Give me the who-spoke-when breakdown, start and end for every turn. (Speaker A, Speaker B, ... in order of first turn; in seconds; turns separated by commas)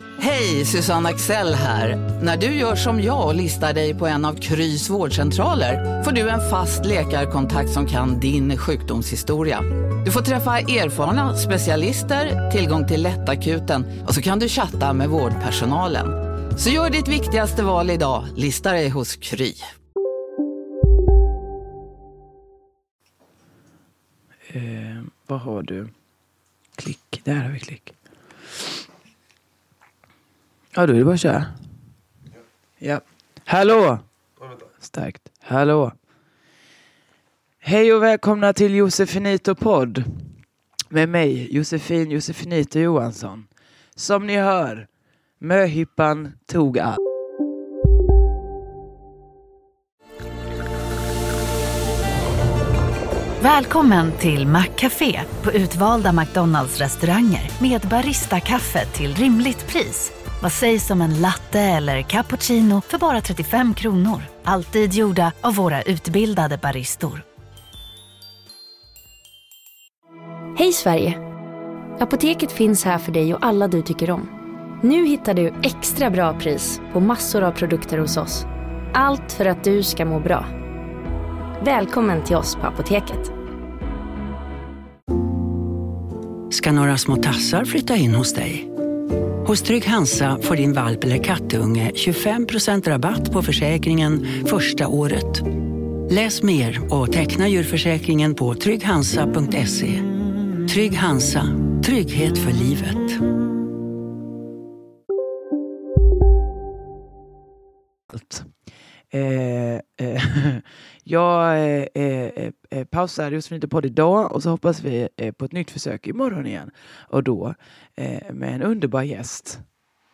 Speaker A: 0.2-19.6, Speaker B: 24.5-25.9, Speaker B: 26.8-27.9, Speaker B: 30.8-31.5, Speaker B: 32.8-34.0, Speaker B: 34.8-35.9, Speaker B: 37.6-40.1, Speaker B: 40.9-44.9, Speaker B: 45.4-47.0, Speaker C: 53.4-67.2, Speaker D: 70.6-71.2, Speaker D: 72.0-74.3, Speaker D: 74.8-80.5, Speaker D: 81.6-83.3, Speaker E: 86.5-88.7, Speaker E: 89.4-95.5, Speaker E: 96.1-100.1, Speaker E: 100.7-103.2, Speaker B: 108.1-108.5, Speaker B: 109.1-119.6